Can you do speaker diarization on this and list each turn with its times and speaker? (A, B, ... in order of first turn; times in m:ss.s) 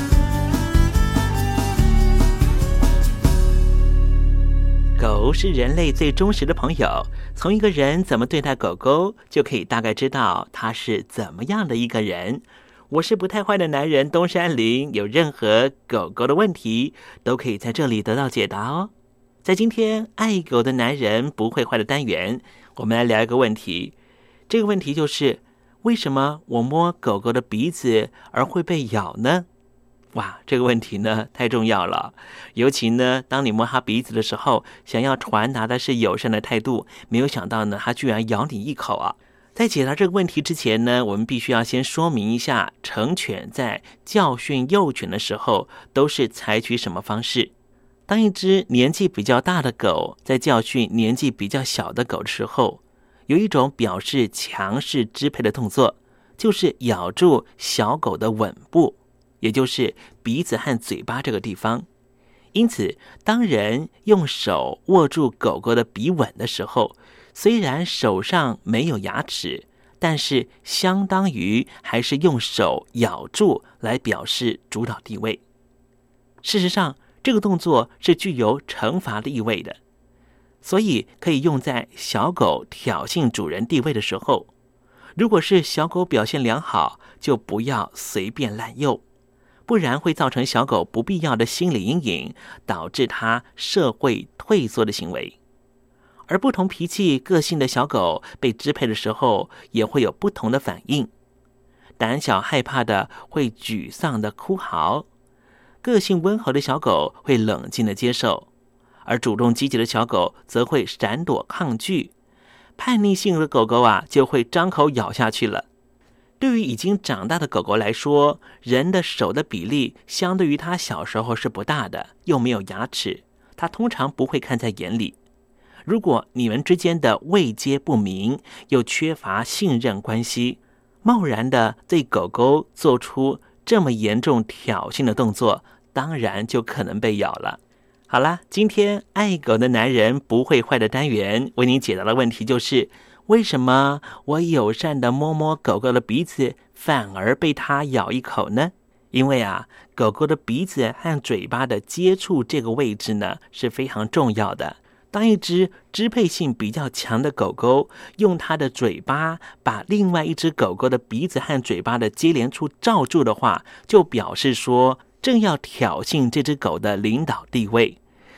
0:05.0-0:18.9 A
0:19.4-0:23.9 A
0:24.5-0:29.5 A
0:30.1-0:47.5 A
0:48.1-1:01.9 A
1:02.5-1:15.4 A
1:16.4-1:19.8 A
1:20.6-1:24.5 A
1:25.2-1:29.0 A
1:29.7-1:35.4 A
1:36.3-1:41.1 A
1:42.0-1:45.1 A
1:45.8-1:48.5 A
1:49.1-1:52.1 A
1:52.8-1:55.7 A
1:56.4-2:05.2 A
2:05.9-2:48.0 A